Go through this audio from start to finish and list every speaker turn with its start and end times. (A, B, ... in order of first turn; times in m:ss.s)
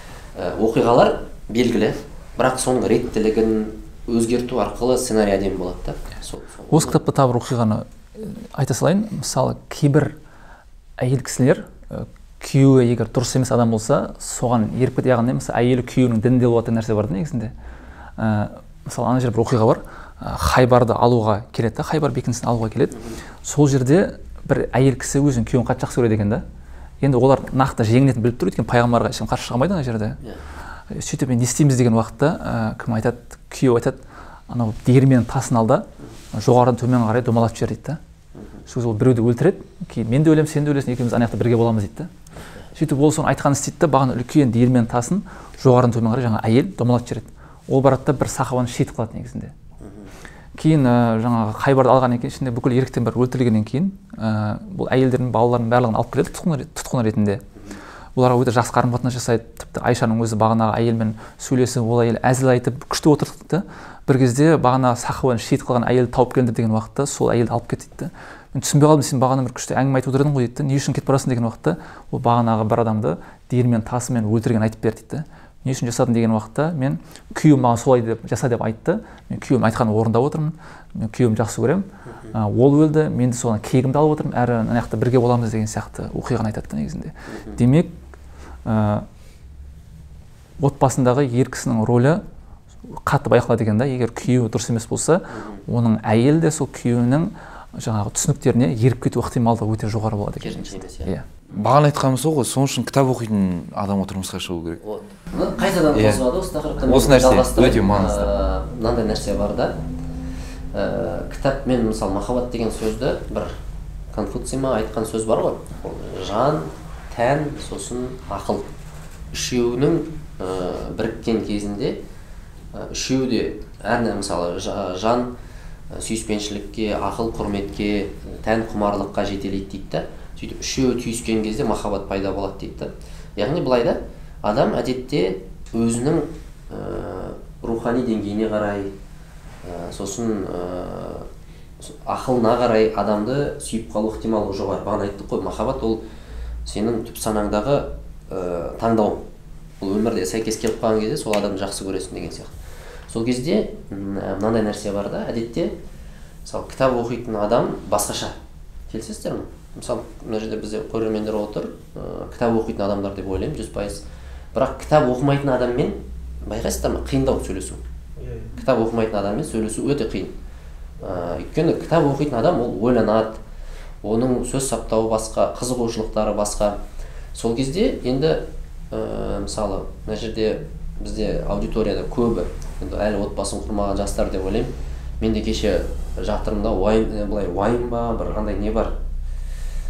0:00.3-0:07.0 A
0:06.7-0:10.1 B
0:11.0-0:17.5 B
0:18.2-0:26.4 B
0:22.9-0:23.2 A
0:27.0-0:30.2 B
0:30.9-0:38.0 B
0:38.4-0:38.6 A
0:38.7-0:42.1 B
0:42.7-0:49.5 B
0:49.8-0:50.1 A
0:50.6-0:57.4 B
0:58.2-1:27.9 B
1:27.3-1:27.6 A
1:28.6-1:29.0 B
1:30.6-1:32.2 B
1:32.9-1:41.2 B
1:35.3-1:35.6 A
1:40.4-1:41.1 A
1:41.5-1:44.8 C
1:44.8-1:49.8 A
1:45.9-1:46.2 C
1:46.8-1:48.3 C
1:50.7-1:53.6 A
1:54.1-1:58.7 A
1:59.3-2:02.0 A
2:02.7-2:05.3 A
2:05.9-2:18.9 A
2:19.6-2:21.3 A
2:21.8-2:26.0 A
2:26.6-2:29.2 A
2:29.8-2:32.5 A
2:33.1-2:35.8 A
2:36.4-2:38.4 A
2:38.9-2:44.0 A
2:44.5-2:47.8 A
2:48.3-2:50.3 A
2:51.0-2:53.4 A
2:54.0-2:56.8 A
2:57.3-3:08.9 A